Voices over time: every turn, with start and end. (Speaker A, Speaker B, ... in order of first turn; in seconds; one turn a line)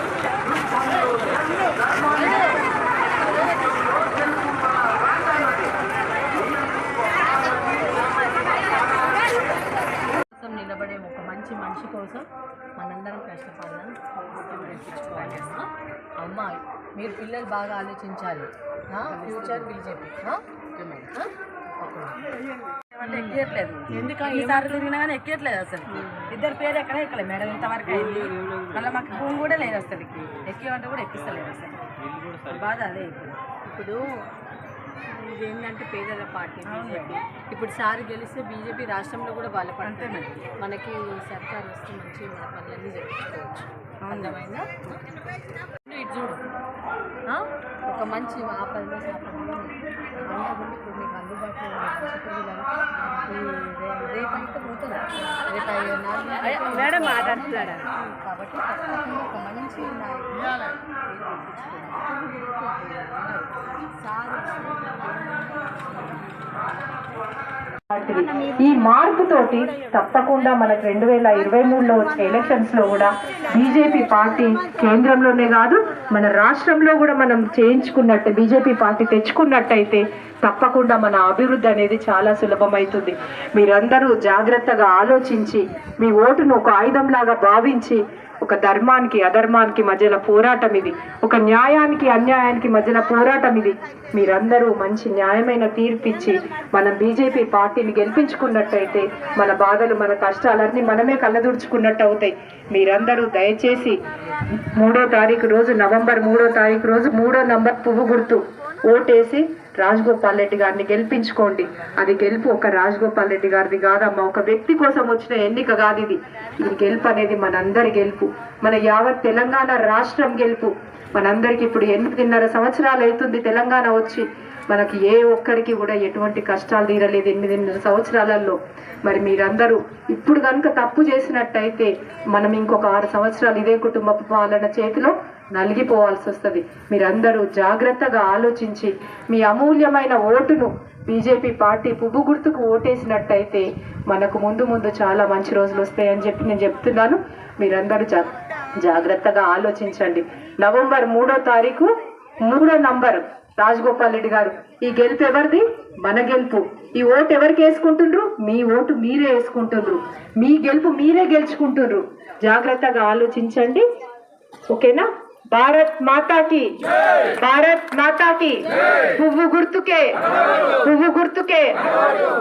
Speaker A: 10.2-15.7
Speaker A: 16.2-22.2
Speaker B: 22.9-32.0
Speaker A: 23.0-24.9
Speaker A: 25.9-26.3
Speaker B: 32.5-33.4
Speaker A: 33.6-34.1
Speaker A: 35.1-45.0
Speaker B: 36.7-37.1
Speaker B: 39.8-40.3
Speaker B: 44.0-44.4
Speaker A: 45.8-46.4
Speaker A: 47.3-66.8
Speaker B: 56.5-57.7
Speaker C: 67.9-104.0
Speaker C: 104.6-151.9
Speaker C: 152.4-163.8
Speaker C: 164.7-166.7
Speaker C: 167.4-170.2
Speaker C: 170.8-171.8